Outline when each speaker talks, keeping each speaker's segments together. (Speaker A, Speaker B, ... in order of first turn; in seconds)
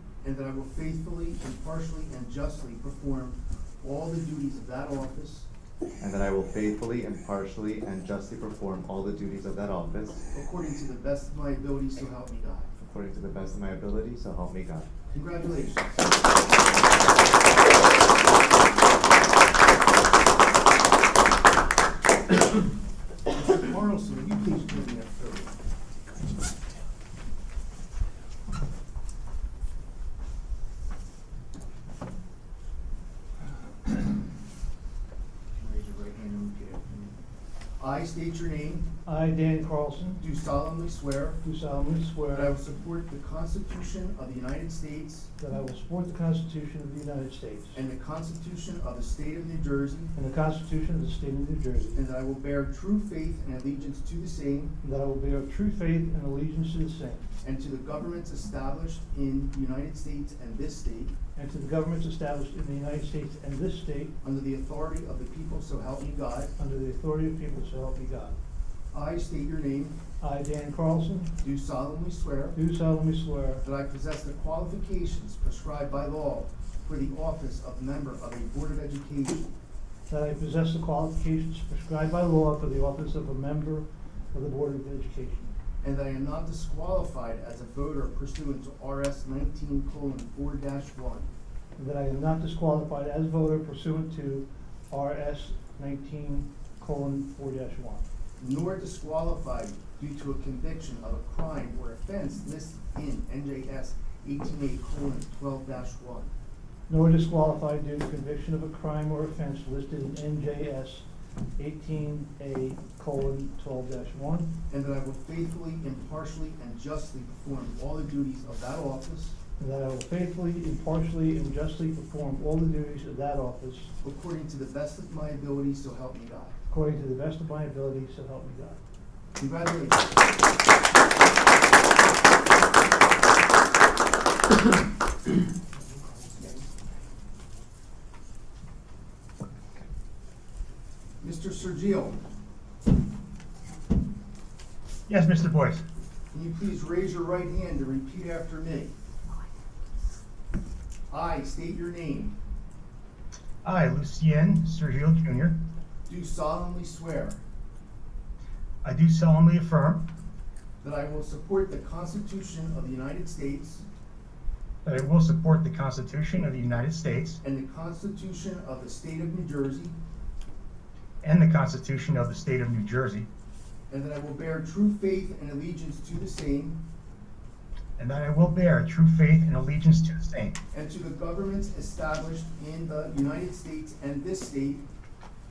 Speaker A: 0.2-5.5, 10.3-12.7, 15.1-15.9, 23.3-25.6, 35.5-37.1, 37.8-38.9, 40.2-41.4, 42.3-45.3, 47.7-50.1, 52.0-54.8, 57.4-61.1, 64.2-66.5, 68.9-70.0, 71.4-72.6, 73.6-79.5, 85.8-91.3, 98.4-106.3, 114.7-119.4, 124.0-126.5, 129.4-130.1, 141.2-142.2, 146.3-148.9, 151.1-152.4, 156.1-157.4, 160.8-163.8, 167.4-169.9, 173.9-176.8, 180.7-184.8
Speaker B: 6.0-10.2, 12.8-14.9
Speaker C: 39.0-40.2, 41.4-42.5, 45.4-47.8, 50.2-52.0, 54.8-57.3, 61.4-64.2, 66.6-68.4, 70.2-71.3, 72.5-73.6, 80.1-85.5, 91.8-98.0, 106.9-111.0, 111.6-114.5, 119.6-123.9, 126.7-128.8
Speaker D: 56.0-56.5, 70.4-71.0, 82.6-83.3, 92.1-94.2, 95.3-95.7, 108.4-109.0, 145.1-145.8, 153.6-155.6, 158.8-160.1, 164.8-167.4, 171.2-173.3, 178.0-180.6